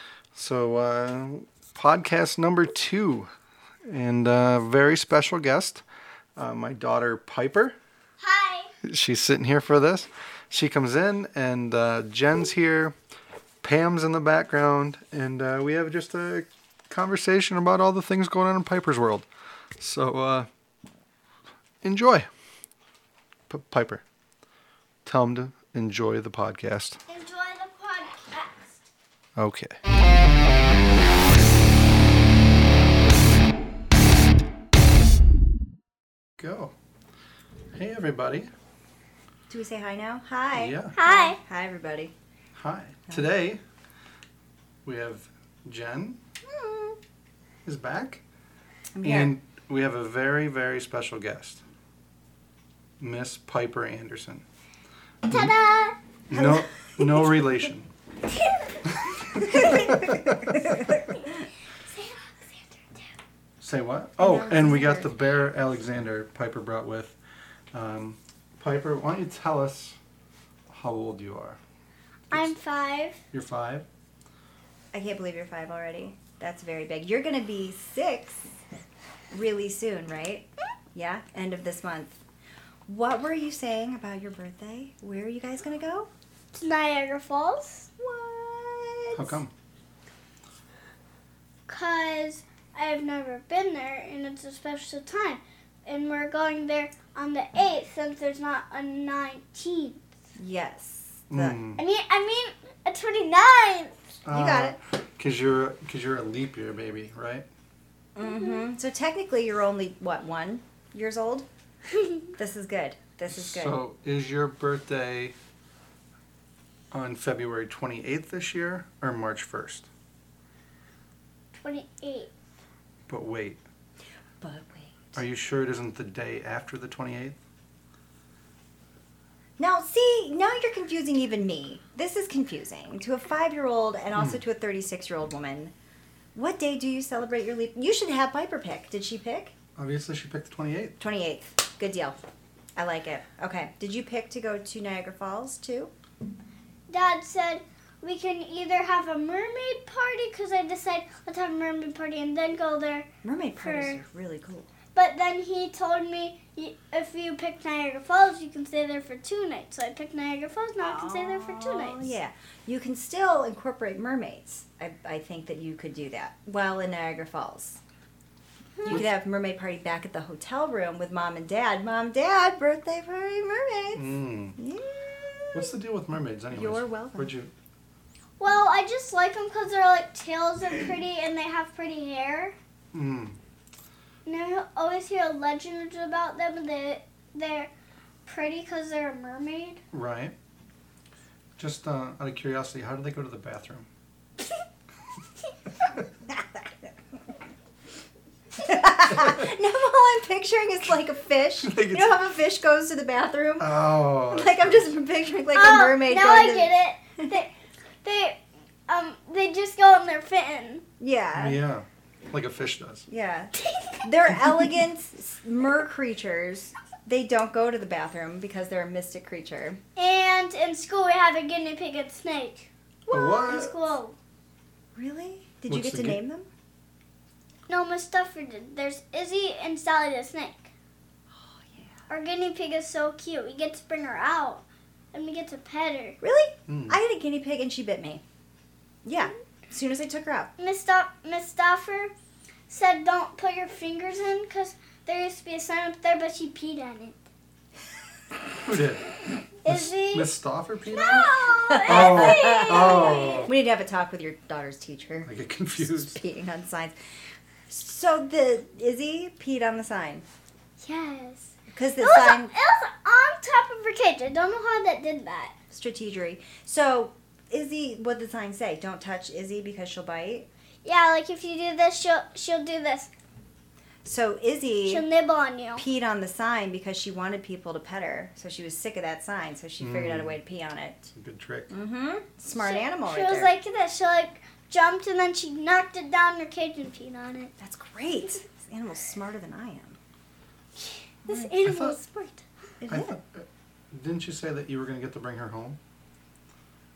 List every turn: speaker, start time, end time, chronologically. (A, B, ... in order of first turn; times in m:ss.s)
0:00.4-0:03.3 A
0:03.9-0:05.8 A
0:06.4-0:07.7 A
0:08.2-0:08.7 B
0:08.8-0:12.9 A
0:13.6-0:19.3 A
0:19.8-0:20.5 A
0:21.8-0:22.3 A
0:23.5-0:24.0 A
0:25.0-0:27.0 A
0:27.1-0:28.9 B
0:29.4-0:29.8 A
0:36.4-0:36.7 A
0:37.7-0:38.5 A
0:39.5-0:42.1 C
0:40.5-0:41.0 A
0:41.0-0:41.4 B
0:42.6-0:43.6 A
0:44.8-0:46.2 A
0:46.4-0:47.0 C
0:47.6-0:48.2 A
0:49.0-0:49.3 C
0:49.0-0:51.6 A
0:53.0-0:54.4 A
0:55.2-0:55.6 A
0:55.3-0:56.0 B
0:56.3-0:57.9 A
0:56.3-0:57.7 C
0:58.9-1:00.5 A
0:59.4-1:01.3 C
1:01.8-1:03.1 B
1:03.6-1:07.2 A
1:04.2-1:05.1 C
1:07.7-1:10.0 A
1:10.7-1:11.6 A
1:12.3-1:13.2 B
1:13.3-1:13.8 A
1:14.9-1:18.5 C
1:19.3-1:22.2 C
1:22.9-1:26.1 C
1:26.5-1:27.9 B
1:28.0-1:29.4 C
1:29.1-1:29.5 A
1:31.7-1:40.0 B
1:40.4-1:41.6 C
1:41.3-1:41.8 A
1:41.8-1:44.0 B
1:44.2-1:47.5 A
1:44.3-1:44.8 C
1:48.2-1:51.5 C
1:48.3-1:48.6 B
1:52.4-1:53.8 C
1:53.3-1:55.4 A
1:56.9-1:59.9 A
2:01.6-2:02.3 B
2:03.1-2:03.6 A
2:04.4-2:05.2 C
2:05.2-2:07.4 A
2:09.6-2:15.7 C
2:16.3-2:19.5 C
2:19.8-2:21.0 A
2:21.0-2:22.2 C
2:22.8-2:25.9 C
2:26.9-2:33.1 B
2:33.2-2:34.7 C
2:33.6-2:34.0 B
2:34.9-2:42.1 B
2:40.8-2:47.8 C
2:48.8-2:54.0 C
2:53.9-2:54.6 A
2:54.6-2:55.7 C
2:55.5-2:57.5 A
2:56.5-2:57.4 C
2:58.4-3:02.6 B
3:02.9-3:03.4 A
3:04.3-3:07.7 B
3:08.3-3:09.8 B
3:09.9-3:10.3 A
3:11.6-3:13.9 A
3:16.3-3:16.9 C
3:18.5-3:27.3 C
3:21.6-3:22.2 A
3:23.6-3:24.9 A
3:25.5-3:30.8 B
3:31.0-3:31.6 C
3:31.4-3:33.0 A
3:33.1-3:39.8 C
3:33.6-3:34.0 B
3:40.0-3:42.7 B
3:43.1-3:43.7 C
3:43.1-3:43.8 A
3:43.4-3:44.2 B
3:45.0-3:46.5 C
3:45.7-3:46.2 A
3:47.7-3:50.7 B
3:51.3-3:52.0 C
3:52.1-3:56.2 B
3:56.2-3:58.2 C
3:56.7-3:57.0 A
3:59.0-4:00.5 C
4:00.6-4:02.1 B
4:02.7-4:07.2 B
4:08.6-4:13.5 A
4:09.6-4:10.3 B
4:10.9-4:13.5 B
4:11.7-4:17.0 C
4:15.2-4:16.2 A
4:17.7-4:20.2 C
4:20.8-4:25.5 B
4:21.7-4:22.5 C
4:25.7-4:30.5 C
4:30.8-4:33.1 B
4:34.0-4:35.1 C
4:34.9-4:35.8 B
4:35.8-4:41.1 C
4:39.8-4:40.4 A
4:41.2-4:41.7 A
4:41.7-4:43.5 C
4:42.5-4:47.5 B
4:47.6-4:50.0 C
4:50.8-4:52.4 B
4:51.6-4:52.0 A
4:52.8-4:53.2 C
4:52.9-4:55.8 A